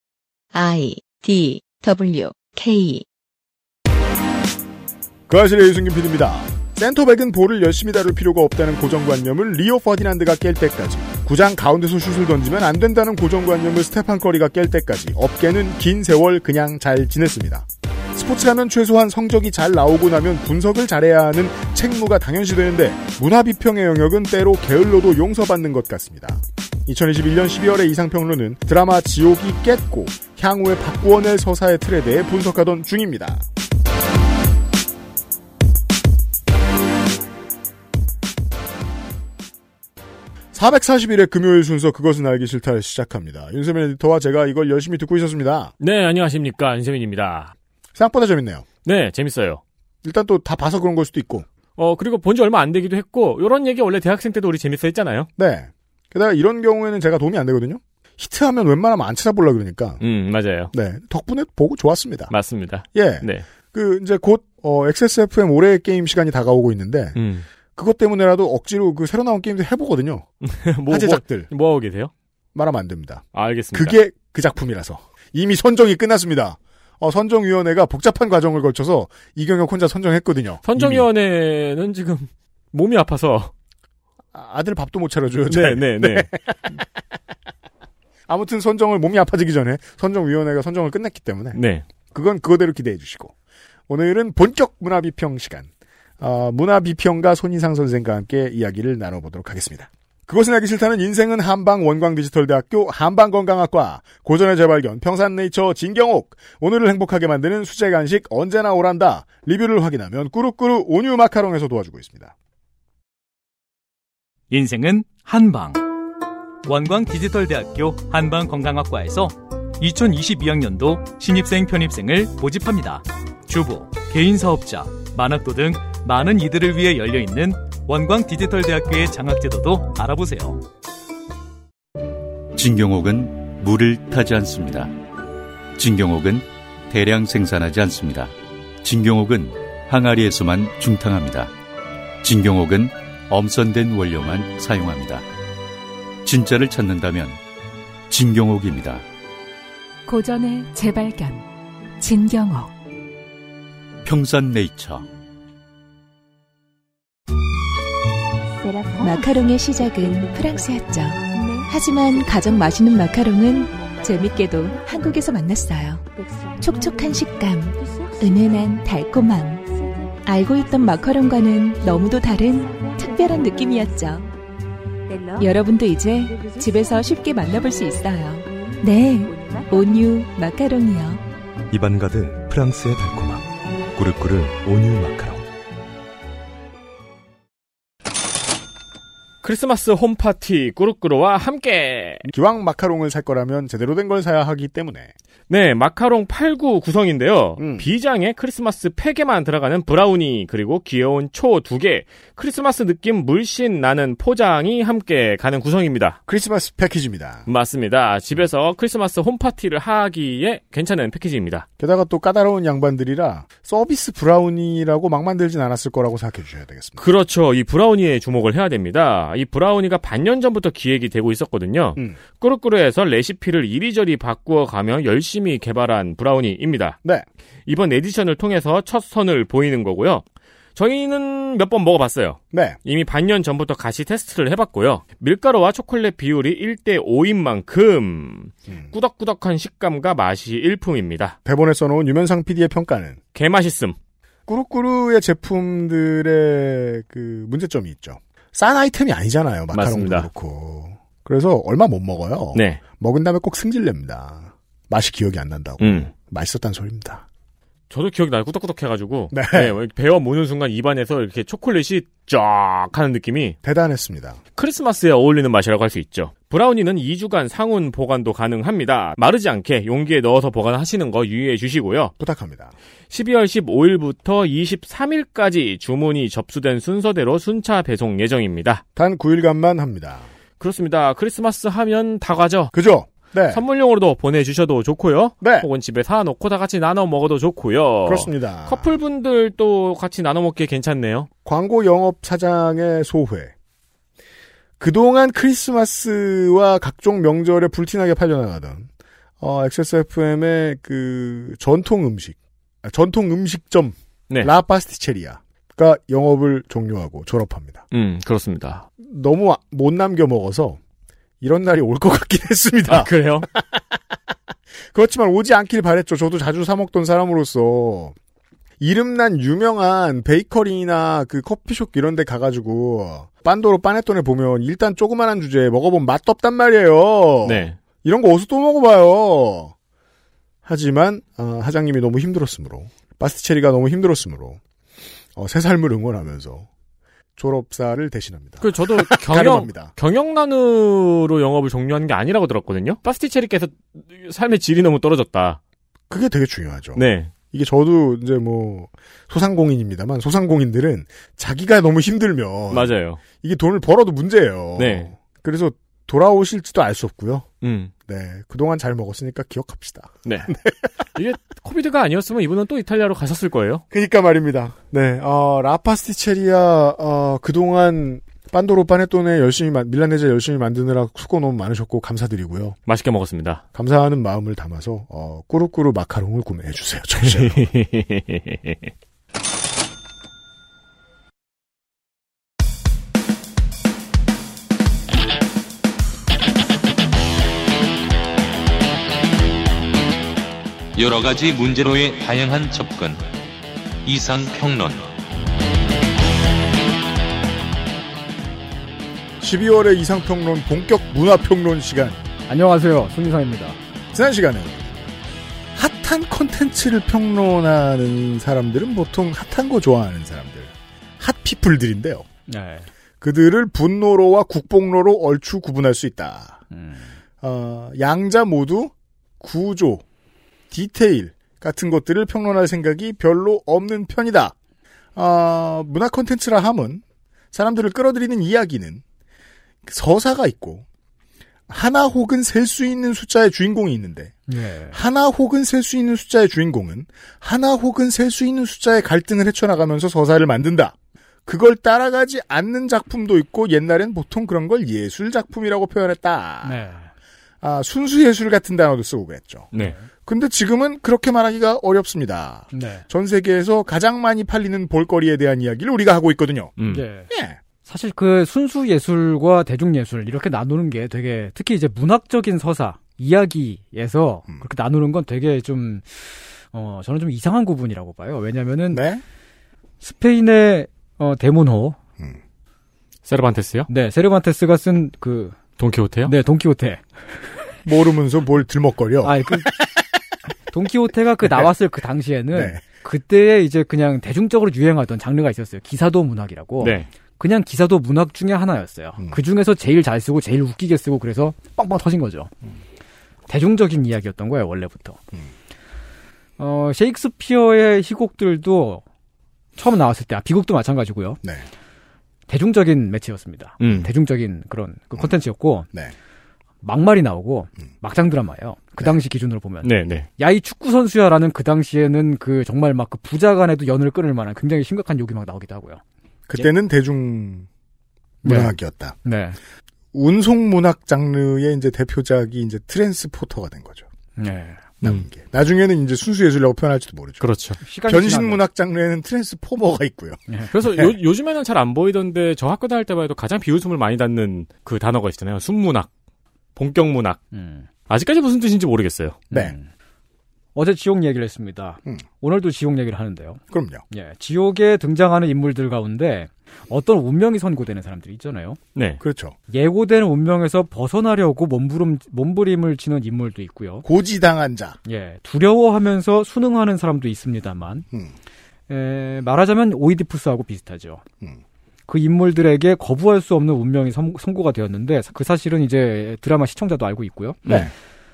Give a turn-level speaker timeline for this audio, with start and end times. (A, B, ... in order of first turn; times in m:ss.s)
0:00.5-0:03.0 A
0:05.3-0:33.4 B
0:40.5-0:45.7 B
0:45.8-0:47.5 C
0:48.0-0:48.7 B
0:48.8-0:49.6 C
0:50.0-0:51.4 B
0:51.8-0:55.3 C
0:55.4-1:00.0 B
1:00.0-1:00.7 C
1:00.7-1:02.3 B
1:02.3-1:03.4 C
1:02.9-1:07.2 B
1:07.2-1:07.4 C
1:07.8-1:10.3 B
1:10.4-1:12.1 C
1:10.9-1:11.5 B
1:12.5-1:21.0 B
1:13.3-1:14.0 C
1:20.7-1:23.5 C
1:24.3-1:26.8 B
1:25.5-1:26.3 C
1:28.3-1:31.6 B
1:31.5-1:31.8 C
1:32.1-1:33.3 B
1:33.9-1:52.3 B
1:54.5-1:55.9 D
1:56.6-2:10.6 D
2:12.5-2:14.9 E
2:15.8-2:21.5 E
2:22.2-2:25.2 E
2:26.2-2:27.4 E
2:28.1-2:29.0 E
2:30.1-2:31.4 F
2:32.0-2:32.7 F
2:34.0-2:35.1 E
2:39.0-2:46.0 F
2:46.6-2:49.6 F
2:50.2-2:54.3 F
2:55.4-3:01.2 F
3:01.7-3:05.4 G
3:09.4-3:12.3 C
3:12.3-3:15.1 B
3:15.5-3:26.2 C
3:17.6-3:17.9 B
3:26.3-3:27.5 B
3:27.5-3:31.7 C
3:31.8-3:37.0 B
3:37.0-3:47.0 C
3:47.7-3:50.2 C
3:50.8-4:01.4 C
3:52.5-3:52.8 B
4:01.4-4:03.2 B
4:03.3-4:04.0 C
4:04.5-4:17.2 B
4:09.7-4:10.3 C
4:12.5-4:12.8 C
4:15.8-4:16.1 C
4:17.9-4:23.6 C
4:19.3-4:19.8 B
4:23.6-4:24.4 B
4:24.6-4:32.1 C
4:32.2-4:32.7 B
4:33.1-4:38.8 C
4:39.0-4:40.3 B
4:40.6-4:42.7 C
4:42.7-4:43.6 B
4:43.5-4:51.3 C
4:45.4-4:45.7 B
4:48.1-4:48.9 B
4:51.4-4:53.5 B
4:54.8-4:58.9 B
4:59.4-5:07.8 B
5:07.9-5:08.9 C
5:09.0-5:10.8 B
5:11.4-5:13.9 B
5:12.9-5:13.5 C
5:14.9-5:18.2 B
5:18.8-5:29.7 B
5:27.4-5:27.8 C
5:30.6-5:34.6 B
5:35.4-5:36.7 B
5:37.4-5:39.9 B
5:38.6-5:45.6 C
5:46.1-5:57.5 B
5:47.0-5:47.3 C
5:52.7-5:53.2 C
5:54.8-5:55.1 C
5:57.6-5:57.9 C
5:58.1-6:00.9 B
6:00.2-6:00.5 C
6:01.2-6:03.8 C
6:03.9-6:12.8 B
6:12.9-6:13.6 C
6:13.8-6:17.7 B
6:17.2-6:18.7 C
6:31.0-6:33.2 H
6:34.0-6:35.1 H
6:39.4-6:42.2 B
6:42.5-6:43.8 I
6:44.1-6:45.2 B
6:45.7-6:52.2 B
6:52.5-6:52.9 I
6:53.2-6:56.6 B
6:56.7-6:57.1 I
6:57.4-7:00.0 B
7:00.7-7:04.6 B
7:05.2-7:09.0 B
7:09.8-7:10.8 B
7:11.7-7:14.4 B
7:14.5-7:15.0 I
7:14.9-7:21.0 B
7:21.5-7:26.8 B
7:26.6-7:27.1 I
7:27.6-7:29.7 B
7:29.8-7:30.1 I
7:30.2-7:36.8 B
7:32.7-7:33.0 I
7:36.8-7:37.0 C
7:36.9-7:37.3 I
7:37.3-7:37.6 B
7:37.8-7:49.1 I
7:48.9-7:49.2 B
7:50.0-7:52.0 I
7:53.3-7:53.9 C
7:53.9-7:55.6 I
7:55.8-7:56.3 C
7:56.2-7:57.0 I
7:57.8-8:00.0 B
7:59.2-7:59.8 I
8:00.7-8:12.5 I
8:02.5-8:02.8 B
8:06.8-8:07.1 C
8:13.5-8:15.2 I
8:16.6-8:19.0 I
8:19.8-8:21.4 I
8:21.4-8:21.7 B
8:22.5-8:25.9 I
8:23.8-8:24.1 C
8:26.8-8:36.0 I
8:29.8-8:30.3 C
8:36.5-8:37.7 B
8:38.4-8:38.7 I
8:38.4-8:39.2 B
8:39.2-8:39.6 I
8:40.1-8:44.1 B
8:44.4-8:44.8 I
8:45.0-8:47.5 B
8:47.4-8:47.8 C
8:47.8-8:48.6 I
8:48.0-8:51.1 B
8:50.7-8:56.1 C
8:56.8-8:57.4 C
8:57.5-8:57.9 I
8:58.1-8:59.4 C
8:59.5-8:59.8 I
9:00.8-9:08.8 I
9:03.7-9:04.0 B
9:09.0-9:09.2 C
9:09.2-9:09.6 B
9:09.7-9:14.1 I
9:14.0-9:15.0 B
9:15.1-9:18.1 I
9:18.9-9:21.2 I
9:22.1-9:27.7 I